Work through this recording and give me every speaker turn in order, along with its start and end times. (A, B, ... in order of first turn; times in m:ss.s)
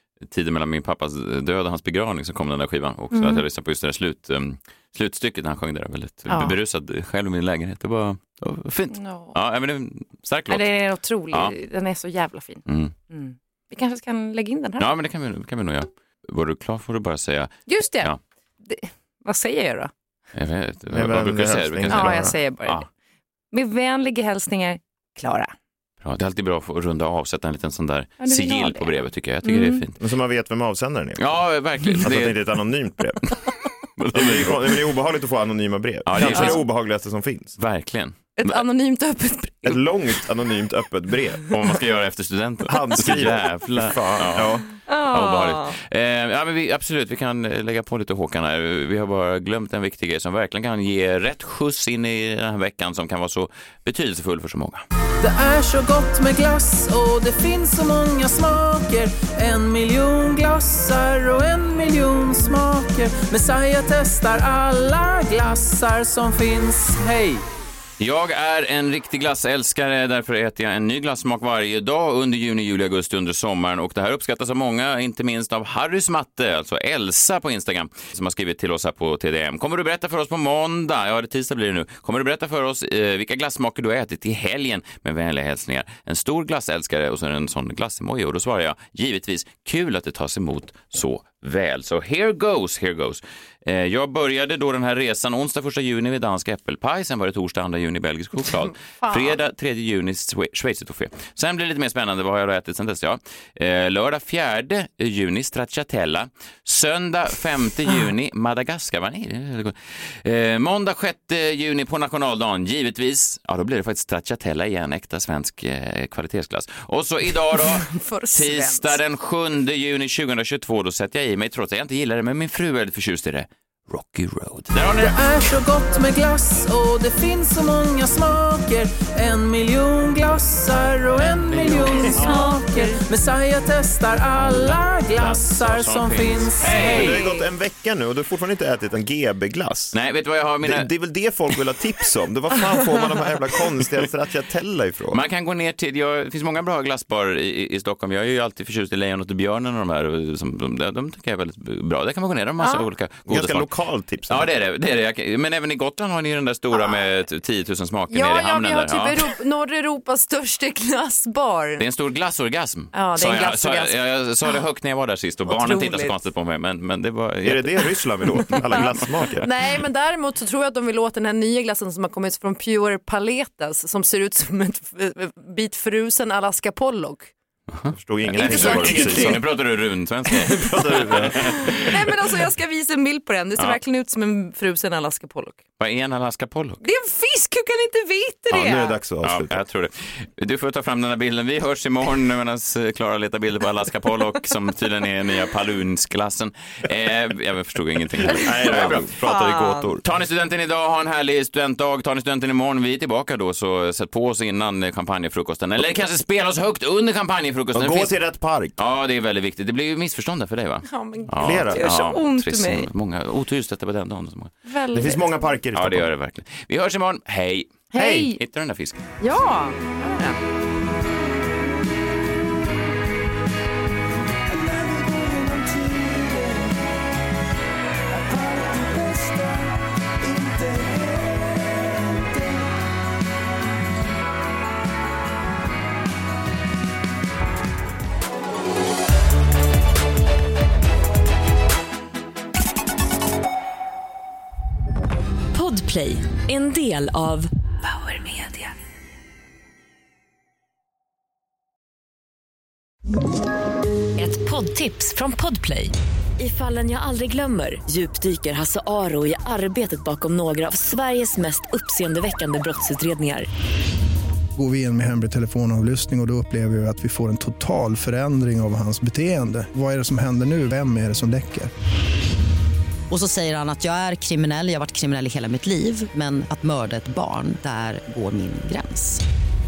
0:00.2-0:10.6 A
0:03.1-0:03.4 B
0:06.3-0:06.5 B
0:08.9-0:09.3 B
0:10.5-0:14.9 B
0:12.6-0:12.9 A
0:14.8-0:18.2 A
0:17.7-0:19.9 B
0:20.3-0:22.8 A
0:20.9-0:22.4 C
0:21.9-0:22.9 B
0:23.5-0:25.5 B
0:26.0-0:30.0 A
0:28.2-0:29.8 B
0:30.0-0:31.2 C
0:31.2-0:32.4 A
0:32.0-0:33.5 C
0:34.0-0:34.6 A
0:34.1-0:37.6 C
0:36.0-0:36.6 A
0:36.2-0:36.6 B
0:37.6-0:38.6 A
0:38.4-0:39.8 B
0:39.6-0:41.5 C
0:41.5-0:54.8 A
0:42.7-0:44.7 C
0:44.8-0:45.8 B
0:55.2-1:07.4 D
1:08.0-2:05.2 A
1:39.0-1:39.4 B
1:57.6-1:59.0 B
2:05.1-2:17.1 D
2:11.3-2:12.5 A
2:12.1-2:13.0 B
2:14.3-2:17.2 A
2:16.8-2:20.0 C
2:19.9-2:20.9 A
2:20.6-2:25.2 C
2:25.1-2:33.7 A
2:32.6-2:32.8 B
2:33.3-2:34.5 C
2:34.3-2:39.2 A
2:38.1-2:41.8 B
2:41.8-2:47.8 A
2:42.9-2:44.6 B
2:45.4-2:46.1 B
2:47.4-2:49.5 C
2:48.6-2:57.3 B
2:57.7-3:02.0 A
2:57.9-2:59.4 C
2:58.3-2:59.4 B
3:00.4-3:01.9 C
3:00.6-3:05.6 B
3:05.8-3:06.8 A
3:06.8-3:08.9 B
3:08.5-3:09.6 C
3:09.2-3:19.1 A
3:18.3-3:20.0 C
3:18.6-3:19.9 B
3:20.0-3:28.1 A
3:27.7-3:28.8 C
3:28.8-3:34.5 A
3:30.8-3:32.9 B
3:31.4-3:32.0 C
3:34.6-3:35.3 B
3:34.9-3:36.1 C
3:35.7-3:39.0 A
3:37.9-3:38.4 B
3:38.0-3:38.3 C
3:39.2-3:40.4 B
4:05.5-4:08.7 E
4:14.2-4:23.5 E
4:24.6-4:31.7 F
4:33.1-4:39.2 G